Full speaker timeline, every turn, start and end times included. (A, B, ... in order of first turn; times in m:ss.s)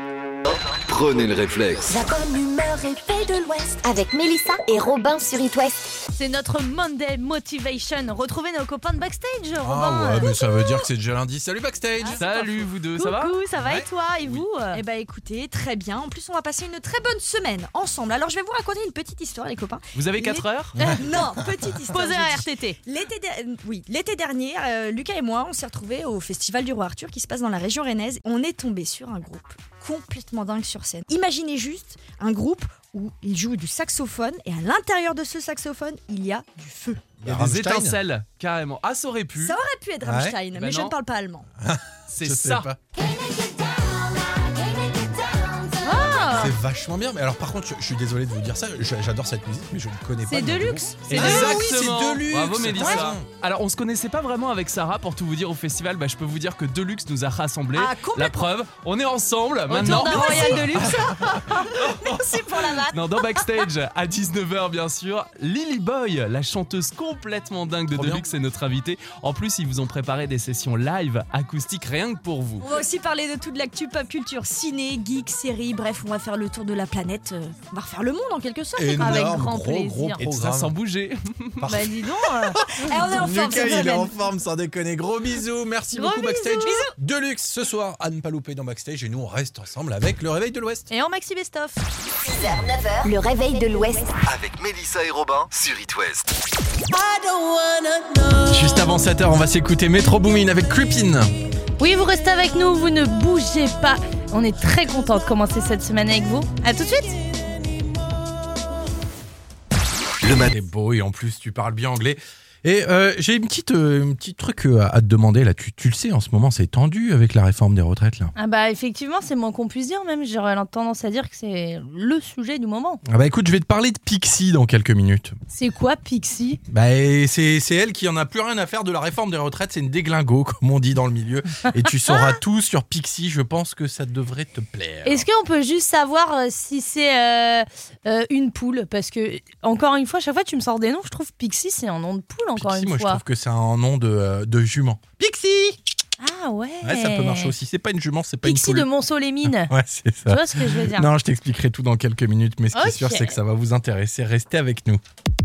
0:00.4-0:01.9 A
0:01.9-0:05.8 B
0:06.1-0:10.4 C
0:09.6-0:12.2 D
0:10.4-0:10.8 E
0:12.2-0:13.4 F
0:12.2-0:14.8 C
0:13.6-0:13.9 D
0:14.7-0:37.1 E
0:19.9-0:20.9 F
0:21.9-0:22.8 C
0:37.2-0:38.0 D
0:37.2-0:39.6 F
0:39.4-0:41.4 E
0:40.0-0:40.4 D
0:40.5-0:41.0 F
0:41.6-0:42.8 D
0:42.1-0:42.7 F
0:45.8-0:46.5 C
0:46.3-0:53.2 D
0:50.2-0:51.6 C
0:51.1-1:00.6 F
0:57.7-0:58.5 E
0:59.7-1:01.1 C
0:59.7-1:03.4 E
1:00.6-1:01.4 D
1:02.8-1:12.7 F
1:07.9-1:08.2 D
1:12.6-1:19.4 E
1:18.8-1:20.7 D
1:19.0-1:20.2 C
1:20.2-1:21.6 F
1:21.6-1:21.9 D
1:21.6-1:22.6 C
1:22.5-1:30.9 D
1:22.8-1:24.2 E
1:25.9-1:26.8 C
1:26.6-1:26.9 E
1:30.9-1:31.8 C
1:32.2-1:34.1 B
1:34.2-1:36.3 A
1:38.5-1:41.3 D
1:41.8-1:47.2 C
1:50.2-1:58.3 D
1:58.4-2:03.0 C
2:03.0-2:05.4 D
2:05.5-2:06.6 C
2:06.7-2:15.2 D
2:12.1-2:12.4 C
2:15.0-2:23.2 C
2:22.6-2:25.8 D
2:26.2-2:27.5 C
2:26.8-2:28.9 D
2:28.4-2:29.7 C
2:29.4-2:35.0 D
2:30.3-2:31.1 C
2:32.7-2:33.4 C